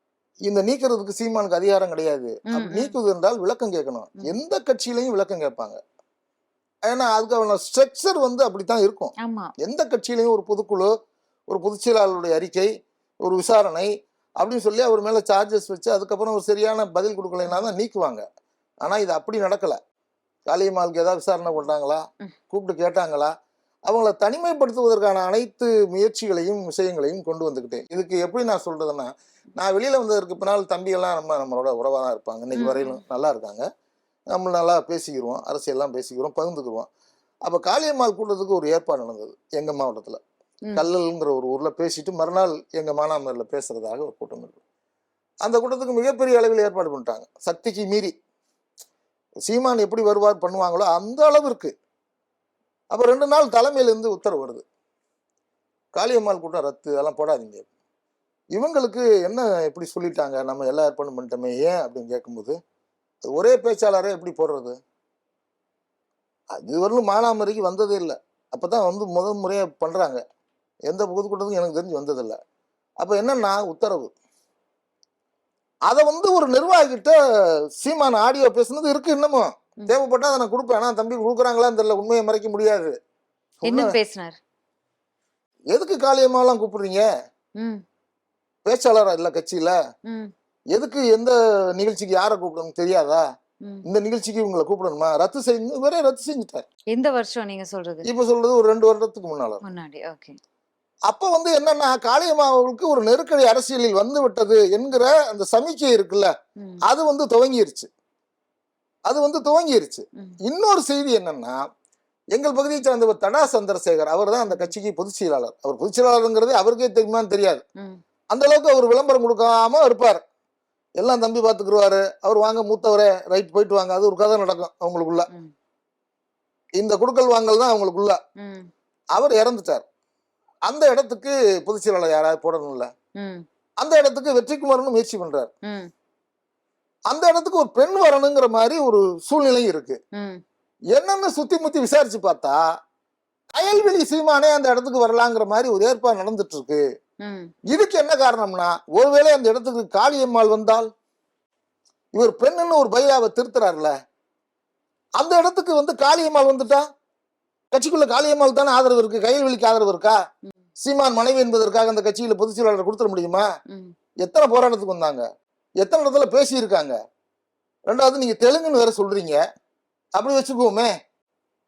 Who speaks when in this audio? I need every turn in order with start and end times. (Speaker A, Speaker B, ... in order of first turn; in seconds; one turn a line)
Speaker A: 0.4-5.8
Speaker B: 2.5-2.9
Speaker A: 6.9-10.9
Speaker B: 9.2-9.5
Speaker A: 11.5-12.7
Speaker A: 13.2-18.2
Speaker A: 18.8-19.8
Speaker A: 20.5-23.3
Speaker A: 23.9-33.6
Speaker B: 32.5-33.0
Speaker A: 34.3-36.9
Speaker A: 37.4-40.2
Speaker A: 40.7-44.6
Speaker A: 45.4-48.1
Speaker A: 49.5-51.7
Speaker A: 52.9-54.6
Speaker A: 55.9-57.7
Speaker A: 58.5-62.5
Speaker A: 63.3-64.8
Speaker A: 66.6-70.2
Speaker A: 70.9-72.4
Speaker A: 73.0-74.1
Speaker A: 75.9-77.2
Speaker A: 77.8-82.9
Speaker A: 83.6-83.9
Speaker B: 83.6-84.4
Speaker A: 85.7-87.0
Speaker A: 88.7-89.8
Speaker B: 90.0-90.3
Speaker A: 90.7-93.2
Speaker A: 93.8-96.6
Speaker B: 96.9-98.0
Speaker A: 98.0-99.6
Speaker B: 99.6-100.3
Speaker A: 101.1-106.3
Speaker A: 106.9-107.9
Speaker A: 109.1-111.7
Speaker A: 112.3-117.6
Speaker A: 118.3-120.2
Speaker A: 121.0-125.3
Speaker A: 126.8-128.2
Speaker B: 128.4-128.7
Speaker A: 129.2-129.8
Speaker A: 130.7-132.9
Speaker B: 133.2-133.4
Speaker A: 133.8-135.5
Speaker B: 135.6-135.9
Speaker A: 137.1-140.0
Speaker B: 140.1-140.4
Speaker A: 140.9-142.6
Speaker A: 143.5-146.8
Speaker B: 147.2-147.5
Speaker A: 147.7-150.9
Speaker A: 152.1-153.9
Speaker A: 155.2-156.8
Speaker A: 157.7-160.2
Speaker A: 160.8-163.4
Speaker A: 164.2-165.2
Speaker A: 165.8-166.9
Speaker A: 167.9-169.4
Speaker A: 170.2-170.9